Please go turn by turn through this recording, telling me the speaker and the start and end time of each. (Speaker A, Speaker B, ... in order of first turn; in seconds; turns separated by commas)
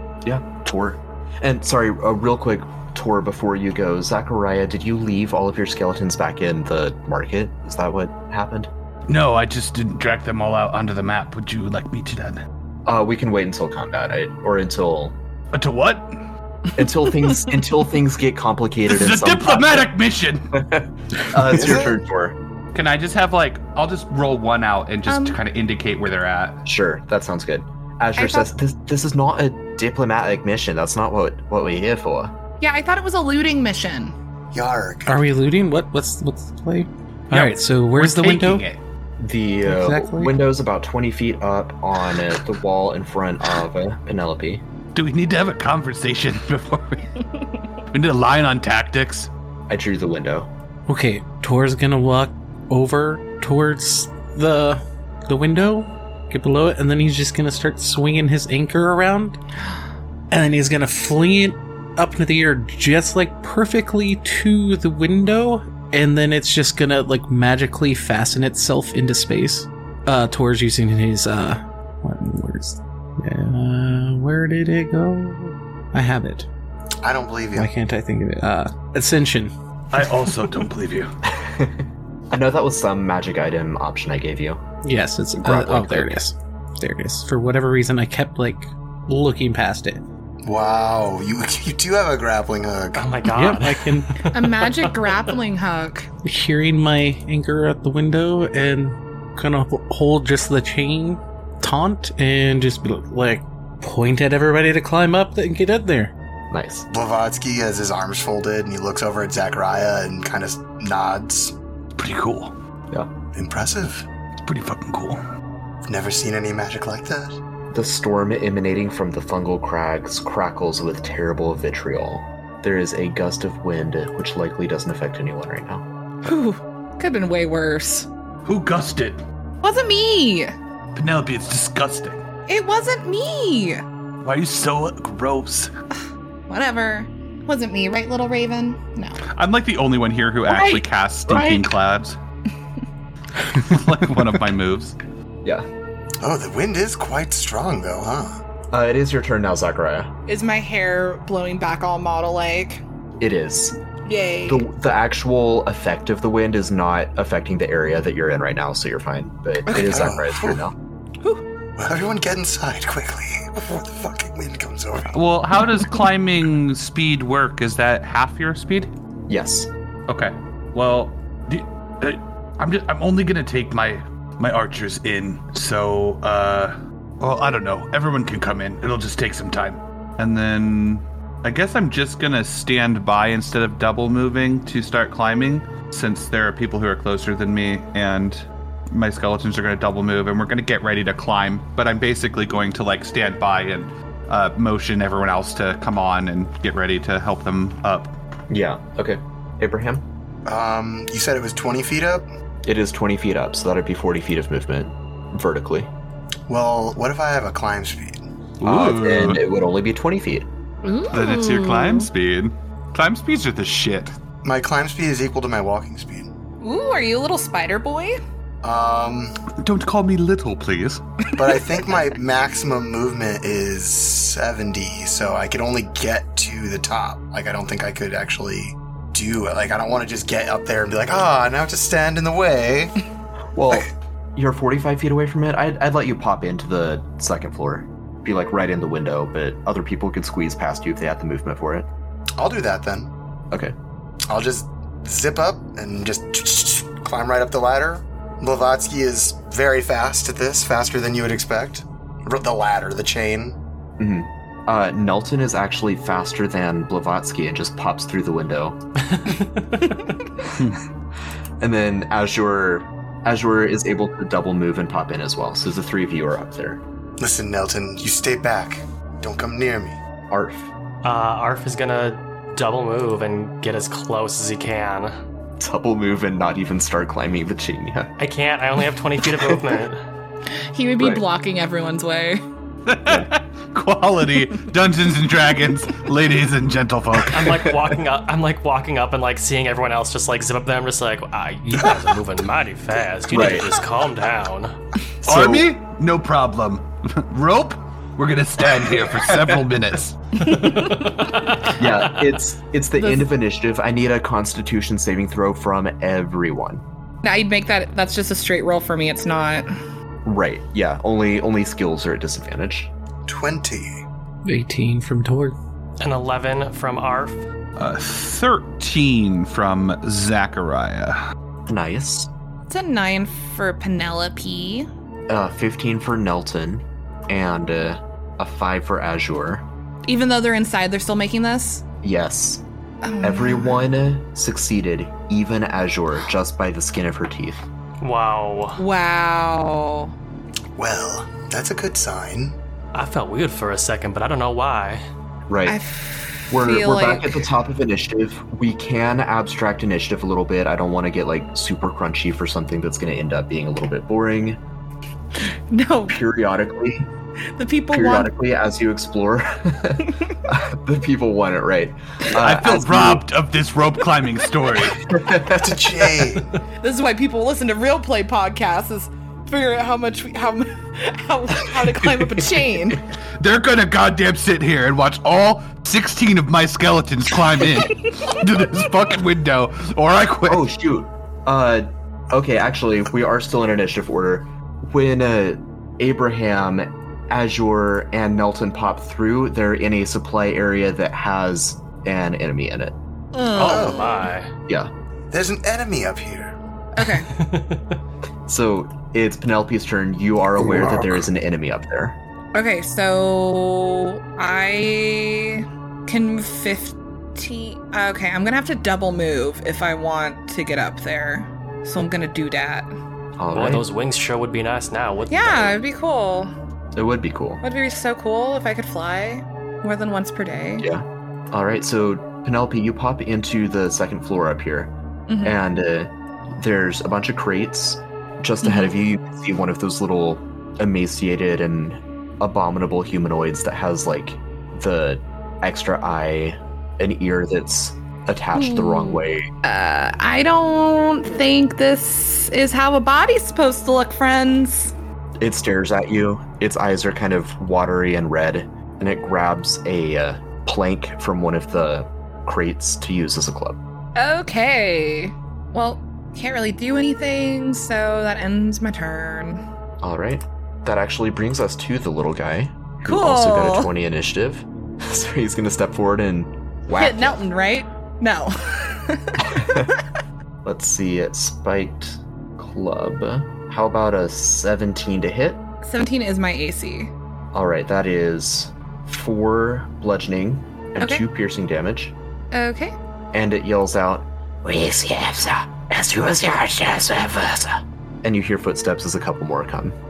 Speaker A: 0.2-8.7, Speaker B: 9.1-12.4, Speaker A: 12.9-15.2, Speaker B: 15.5-16.2, Speaker A: 16.8-19.9, Speaker B: 18.9-20.6, Speaker A: 20.6-22.4, Speaker C: 21.5-22.0, Speaker B: 22.7-26.6, Speaker D: 25.1-25.4, Speaker A: 26.7-32.3, Speaker D: 28.2-28.5, Speaker D: 32.6-34.1, Speaker C: 34.5-35.2, Speaker E: 35.1-38.6, Speaker B: 37.3-38.8, Speaker A: 39.2-44.6, Speaker E: 39.6-40.3, Speaker B: 45.0-47.2, Speaker B: 47.9-49.3, Speaker A: 49.7-50.5, Speaker E: 50.9-59.4, Speaker E: 60.3-76.5, Speaker C: 77.0-77.7, Speaker E: 77.6-79.5, Speaker B: 79.9-81.1, Speaker A: 81.3-84.6, Speaker E: 84.8-90.0, Speaker A: 85.4-86.2, Speaker C: 90.4-93.1, Speaker F: 93.0-95.2, Speaker E: 93.3-94.3, Speaker D: 94.3-96.1, Speaker E: 96.2-106.1, Speaker A: 106.5-106.9, Speaker C: 106.9-111.6, Speaker B: 112.0-112.5, Speaker C: 113.3-114.1, Speaker B: 114.4-115.2, Speaker C: 115.9-117.4, Speaker A: 117.7-125.9, Speaker D: 126.2-128.1, Speaker B: 128.4-129.2, Speaker D: 129.6-130.5, Speaker B: 130.9-132.2, Speaker D: 132.5-133.8, Speaker B: 134.2-135.7, Speaker D: 136.5-139.2, Speaker B: 139.3-142.2, Speaker D: 140.5-141.7, Speaker B: 143.4-145.0, Speaker C: 146.2-148.4, Speaker A: 148.7-150.1, Speaker D: 150.3-152.8, Speaker A: 153.2-153.8, Speaker D: 154.1-154.6, Speaker A: 154.5-160.8, Speaker D: 159.7-160.0, Speaker C: 159.8-160.6, Speaker C: 161.8-165.2, Speaker B: 165.1-168.9, Speaker A: 169.3-169.7, Speaker B: 170.1-198.2, Speaker A: 198.5-200.1, Speaker C: 200.5-202.2, Speaker A: 202.7-205.9, Speaker C: 206.5-208.2, Speaker B: 208.6-209.4, Speaker A: 208.6-210.5, Speaker D: 210.8-212.1, Speaker B: 211.1-214.2, Speaker C: 214.4-216.3, Speaker D: 216.6-218.2, Speaker C: 218.6-219.4, Speaker B: 219.5-221.0, Speaker C: 221.4-232.9, Speaker A: 233.5-241.9, Speaker C: 242.4-243.1, Speaker C: 244.3-253.6, Speaker A: 254.0-258.8, Speaker F: 259.1-259.9, Speaker A: 261.6-266.8, Speaker C: 267.2-270.0, Speaker A: 270.3-270.7, Speaker F: 271.0-275.1, Speaker A: 275.6-278.1, Speaker F: 278.2-280.0, Speaker D: 280.7-282.4, Speaker A: 281.0-281.2, Speaker B: 282.9-287.5, Speaker F: 287.3-294.8, Speaker A: 293.3-293.7, Speaker B: 295.2-300.2, Speaker A: 295.2-295.7, Speaker A: 299.2-299.6, Speaker D: 300.4-301.3, Speaker F: 300.4-302.3, Speaker A: 301.8-306.8, Speaker D: 303.0-303.2, Speaker D: 307.2-309.7, Speaker A: 310.2-312.9, Speaker C: 313.3-314.0, Speaker E: 314.4-315.6, Speaker F: 316.0-317.4, Speaker B: 317.8-321.2, Speaker A: 321.7-322.3, Speaker D: 322.7-324.9, Speaker A: 325.3-329.7, Speaker D: 330.1-331.8, Speaker A: 332.0-332.6, Speaker D: 333.0-333.9, Speaker A: 333.2-337.7, Speaker F: 338.0-338.8, Speaker D: 338.8-340.1, Speaker C: 340.8-342.6, Speaker F: 342.9-345.0, Speaker A: 345.5-345.8, Speaker D: 345.7-347.4, Speaker A: 346.5-354.6, Speaker D: 355.7-356.2, Speaker A: 356.1-357.1, Speaker D: 357.6-358.3, Speaker A: 357.9-363.2, Speaker B: 362.3-365.1, Speaker A: 365.1-365.8, Speaker C: 365.5-366.6, Speaker D: 366.8-373.0, Speaker B: 373.4-380.6, Speaker A: 380.5-393.0, Speaker D: 393.3-394.3, Speaker F: 393.6-394.5, Speaker C: 393.6-394.3, Speaker C: 395.3-396.5, Speaker D: 397.0-397.3, Speaker F: 397.1-398.0, Speaker A: 398.5-402.2, Speaker D: 402.5-412.9, Speaker A: 413.4-413.9, Speaker F: 413.5-415.8, Speaker D: 415.3-416.5, Speaker A: 416.9-417.6, Speaker D: 417.6-420.9, Speaker A: 420.8-439.5, Speaker D: 425.3-425.6, Speaker D: 428.6-429.0, Speaker D: 438.6-444.9, Speaker A: 445.4-453.8, Speaker D: 454.2-459.6, Speaker A: 460.0-467.4, Speaker D: 463.1-463.9, Speaker D: 466.9-470.0, Speaker A: 469.4-469.9, Speaker A: 470.6-475.6, Speaker D: 475.8-477.1, Speaker A: 477.5-482.1, Speaker D: 482.5-482.9, Speaker A: 483.3-490.0